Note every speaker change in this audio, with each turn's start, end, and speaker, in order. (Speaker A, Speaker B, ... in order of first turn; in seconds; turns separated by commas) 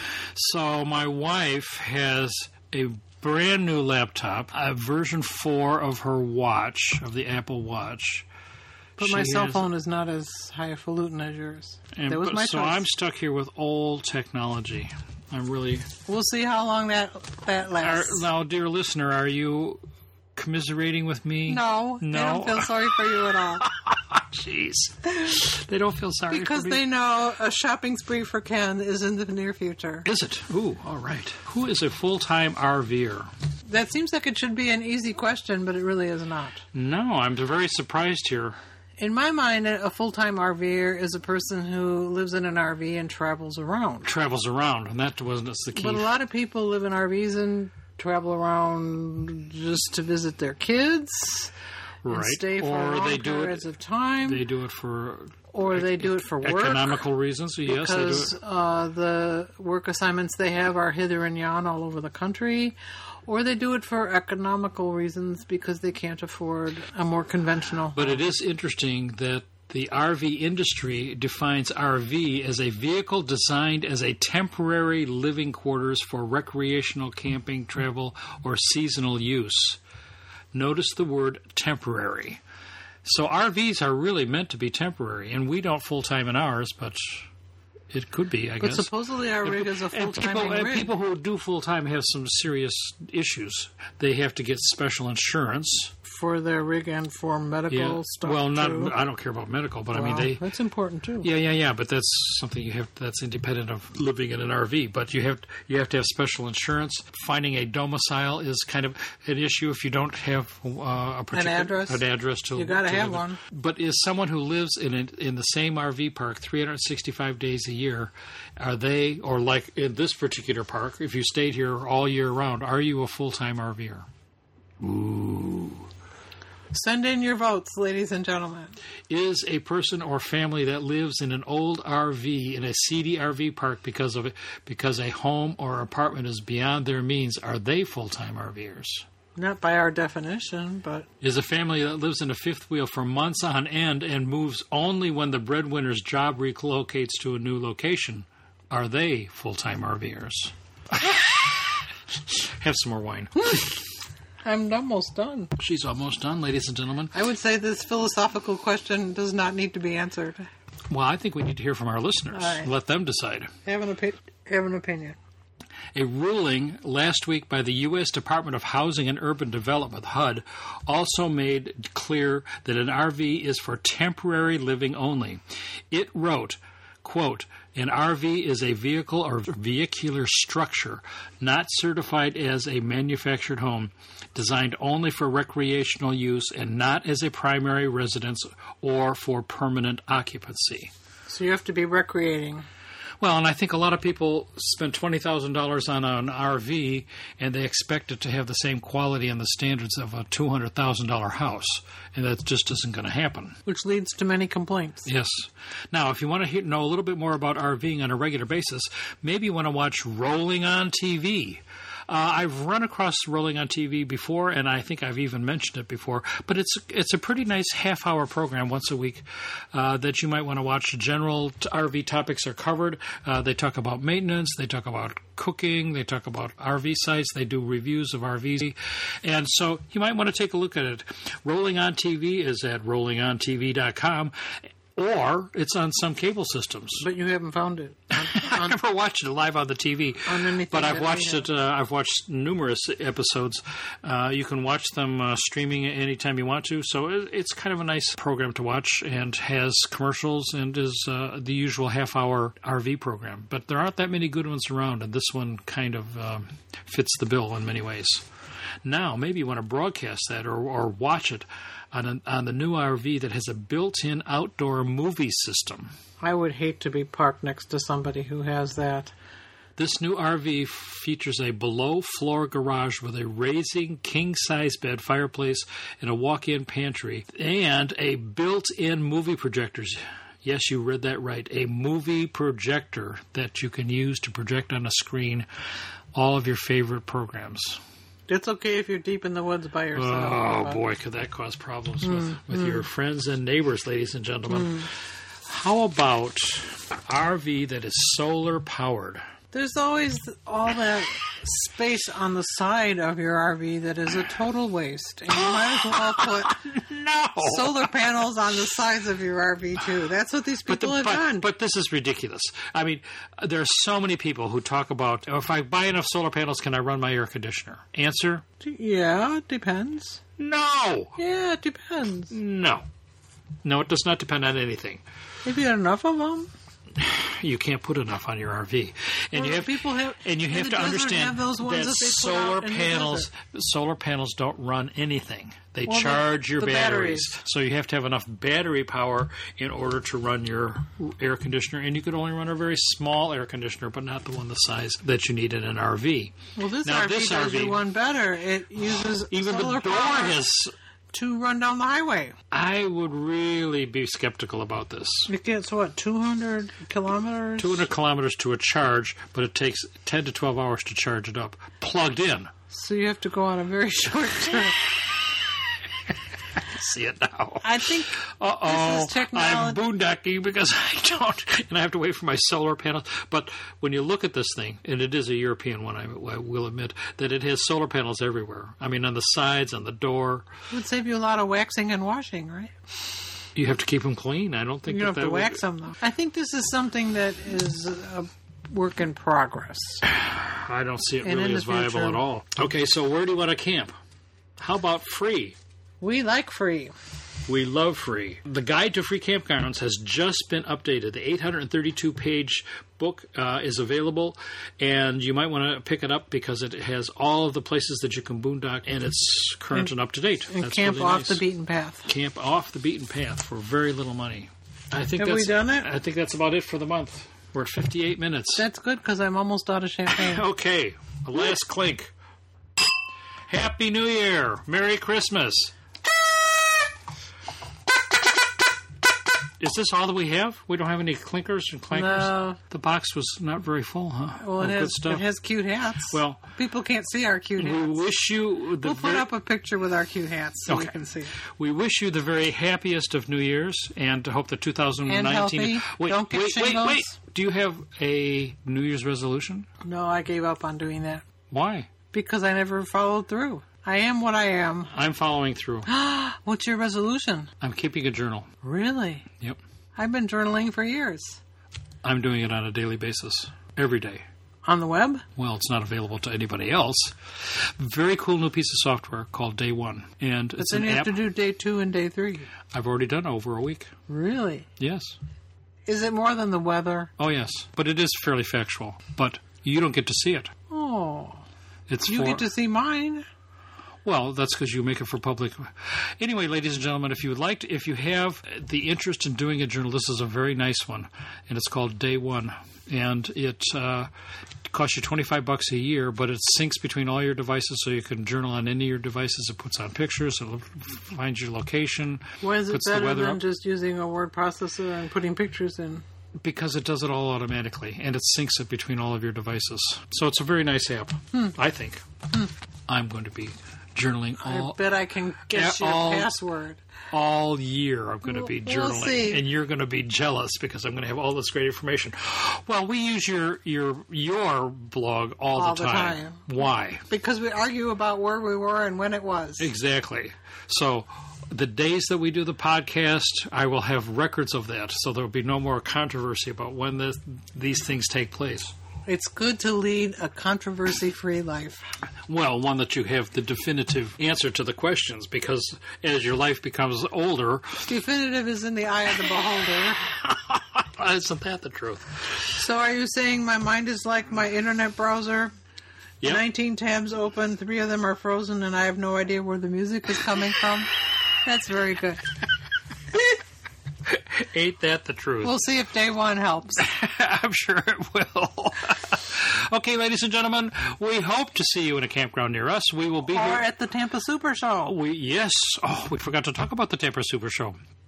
Speaker A: 0.3-8.3, Speaker A: 9.0-9.7, Speaker B: 9.0-12.8, Speaker A: 11.9-15.9, Speaker B: 16.1-18.2, Speaker A: 17.8-19.8, Speaker A: 20.4-26.8, Speaker B: 21.5-23.7, Speaker B: 26.3-30.1, Speaker A: 30.1-33.3, Speaker B: 33.7-36.6, Speaker A: 36.7-38.6, Speaker B: 39.0-44.1, Speaker A: 44.0-46.1, Speaker B: 45.8-51.5, Speaker A: 52.0-53.6, Speaker B: 52.1-54.4, Speaker A: 54.2-58.3, Speaker B: 55.5-57.0, Speaker B: 57.7-68.2, Speaker A: 67.9-79.8, Speaker A: 80.5-82.4, Speaker A: 83.0-87.3, Speaker A: 87.9-88.9, Speaker B: 88.6-90.9, Speaker A: 89.4-95.9, Speaker B: 96.0-99.0, Speaker A: 97.7-100.4, Speaker B: 99.9-101.3, Speaker A: 101.2-124.1, Speaker B: 111.3-112.0, Speaker B: 112.5-113.4, Speaker A: 124.8-125.9, Speaker B: 126.7-128.8, Speaker A: 129.1-139.1, Speaker B: 139.4-141.1, Speaker A: 141.2-153.7, Speaker B: 154.4-155.5, Speaker A: 155.6-157.1, Speaker B: 157.1-160.5, Speaker A: 160.9-163.5, Speaker B: 162.3-162.7, Speaker B: 163.7-165.2, Speaker A: 165.9-190.9, Speaker B: 191.3-192.7, Speaker A: 193.2-203.6, Speaker B: 203.7-205.1, Speaker A: 205.1-237.0, Speaker B: 237.0-238.8, Speaker A: 238.2-258.2, Speaker B: 240.2-241.5, Speaker A: 258.8-265.9, Speaker B: 266.2-269.1, Speaker A: 269.8-285.5, Speaker A: 286.1-287.8, Speaker B: 288.3-290.8, Speaker A: 289.9-294.9, Speaker B: 292.1-292.8, Speaker B: 294.5-294.9, Speaker A: 295.4-299.2, Speaker B: 299.5-306.6, Speaker A: 305.4-307.9, Speaker B: 307.4-311.4, Speaker A: 310.7-318.4, Speaker B: 318.6-320.2, Speaker A: 320.4-321.2, Speaker B: 321.2-322.3, Speaker A: 322.3-322.8, Speaker A: 323.6-325.0, Speaker B: 325.4-326.5, Speaker A: 326.9-347.8, Speaker B: 329.4-333.3, Speaker B: 335.9-337.3, Speaker B: 346.6-350.4, Speaker A: 349.3-350.7, Speaker B: 351.1-352.4, Speaker A: 352.5-355.3, Speaker B: 355.3-357.9, Speaker A: 357.6-362.5, Speaker B: 362.7-365.0, Speaker A: 366.6-380.5, Speaker B: 367.6-369.8, Speaker B: 380.7-382.7, Speaker A: 383.6-385.6, Speaker B: 384.9-390.1, Speaker A: 390.1-393.9, Speaker B: 391.2-392.2, Speaker A: 394.6-395.6, Speaker B: 396.0-396.9, Speaker A: 397.5-411.4, Speaker B: 410.5-412.1, Speaker A: 412.1-418.6, Speaker B: 415.2-415.9, Speaker B: 418.6-420.4, Speaker A: 420.1-422.1, Speaker A: 423.5-425.7, Speaker A: 429.6-435.2, Speaker B: 431.9-432.6, Speaker B: 434.4-438.0, Speaker A: 436.1-436.4, Speaker A: 437.6-439.3, Speaker B: 438.8-441.3, Speaker A: 440.7-449.7, Speaker B: 445.1-447.1, Speaker B: 449.8-451.2, Speaker A: 451.5-451.9, Speaker B: 452.1-454.9, Speaker A: 454.9-455.9, Speaker B: 455.9-457.5, Speaker A: 457.6-458.5, Speaker B: 458.6-459.3, Speaker B: 460.0-461.4, Speaker A: 462.0-464.2, Speaker B: 464.6-465.2, Speaker A: 465.4-471.2, Speaker B: 470.6-472.5, Speaker A: 472.7-473.9, Speaker B: 474.1-474.7, Speaker A: 474.8-475.2, Speaker B: 475.9-477.1, Speaker A: 477.2-480.5, Speaker B: 480.7-481.4, Speaker A: 481.9-482.5, Speaker B: 482.1-483.2, Speaker A: 484.0-494.1, Speaker A: 494.7-503.4, Speaker B: 502.4-506.0, Speaker A: 506.4-512.0, Speaker A: 512.9-514.8, Speaker B: 514.4-516.8, Speaker A: 515.5-516.3, Speaker A: 517.1-527.0, Speaker B: 518.2-519.4, Speaker B: 525.5-526.5, Speaker B: 527.1-529.7, Speaker A: 529.6-538.7, Speaker B: 539.1-541.9, Speaker A: 542.3-547.9, Speaker B: 547.9-550.0, Speaker A: 550.1-552.3, Speaker B: 552.5-555.5, Speaker B: 556.2-562.3, Speaker A: 564.1-565.6, Speaker B: 565.4-566.9, Speaker A: 566.8-573.6, Speaker B: 573.3-574.9, Speaker A: 574.8-577.8